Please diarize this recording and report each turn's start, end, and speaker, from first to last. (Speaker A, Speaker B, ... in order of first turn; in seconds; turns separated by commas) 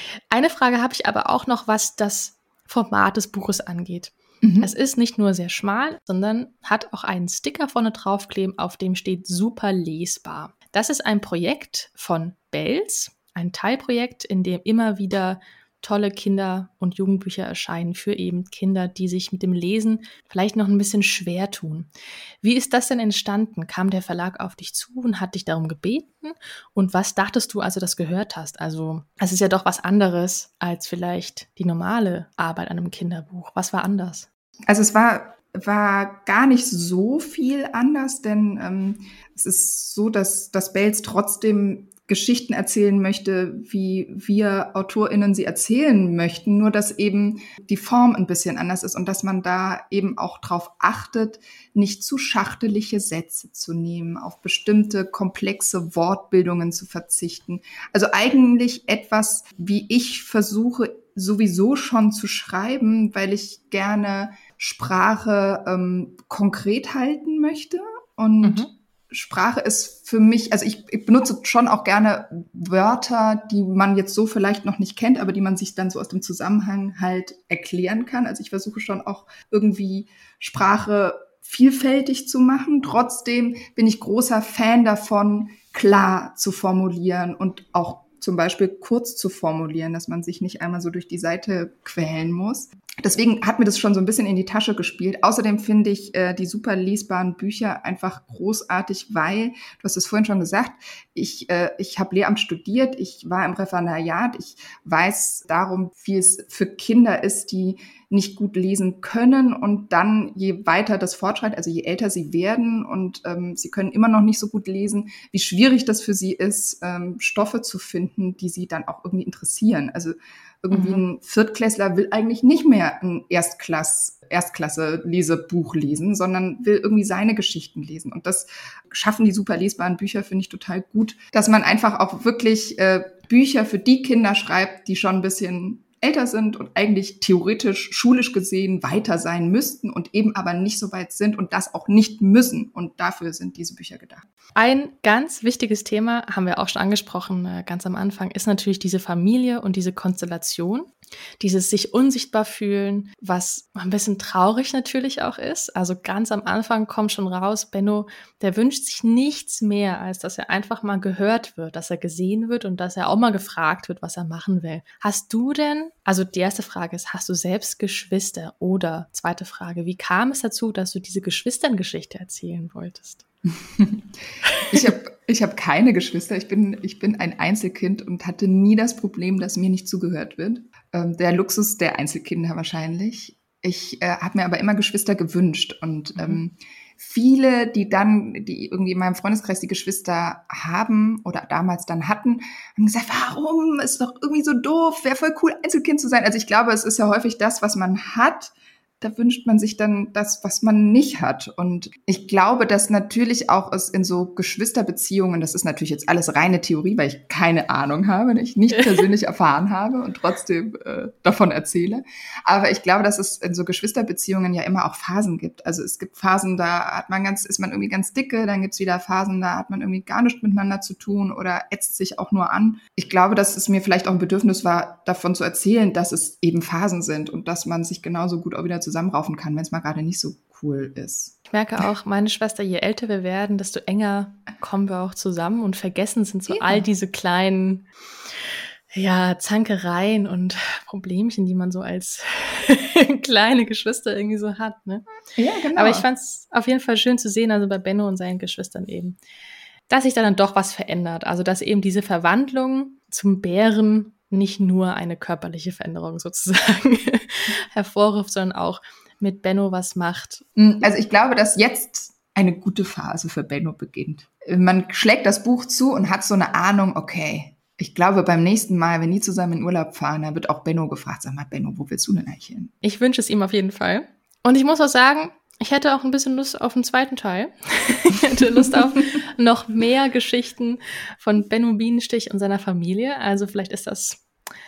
Speaker A: 0.3-21.9, Speaker B: 4.4-4.7, Speaker A: 22.4-34.3, Speaker B: 34.7-144.3, Speaker A: 68.4-68.7, Speaker A: 120.7-121.0, Speaker A: 144.6-173.2, Speaker B: 173.8-174.1, Speaker B: 174.6-231.3, Speaker A: 186.2-186.4, Speaker A: 231.5-237.8, Speaker B: 236.5-236.9, Speaker A: 238.9-245.0, Speaker B: 245.4-246.1, Speaker A: 245.7-249.2, Speaker A: 249.9-260.4, Speaker B: 260.6-272.7, Speaker A: 272.8-284.2